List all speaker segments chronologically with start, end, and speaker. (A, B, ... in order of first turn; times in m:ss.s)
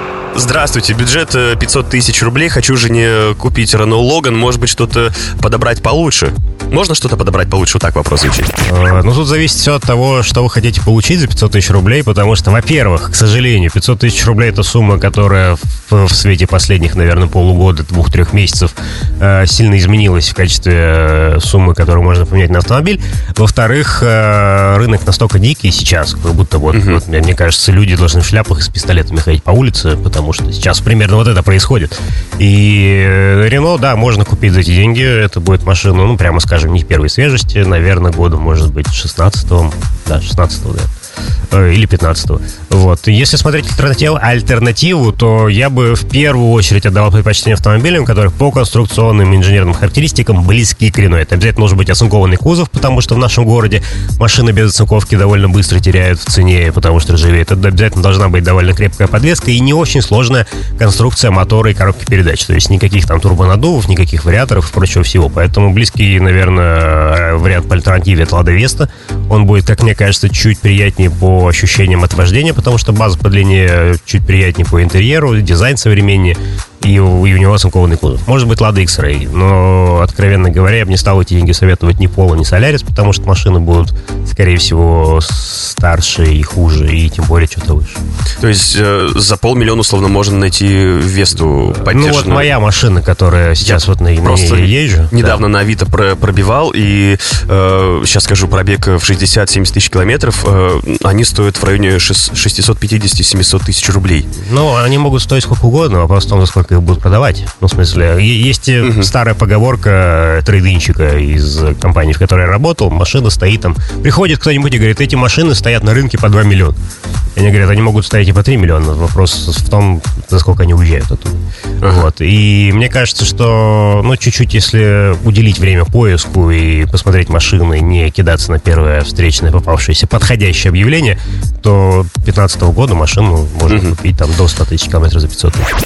0:00.3-0:08.5 A
0:08.6-0:40.9 B
0:26.7-0:27.0 A
0:41.5-1:28.0 B
1:28.4-1:32.6 A
1:31.8-1:35.4 B
1:33.6-1:44.3 A
1:44.4-1:56.8 B
1:48.8-1:49.1 A
1:57.4-2:15.7 B
2:13.7-2:13.9 A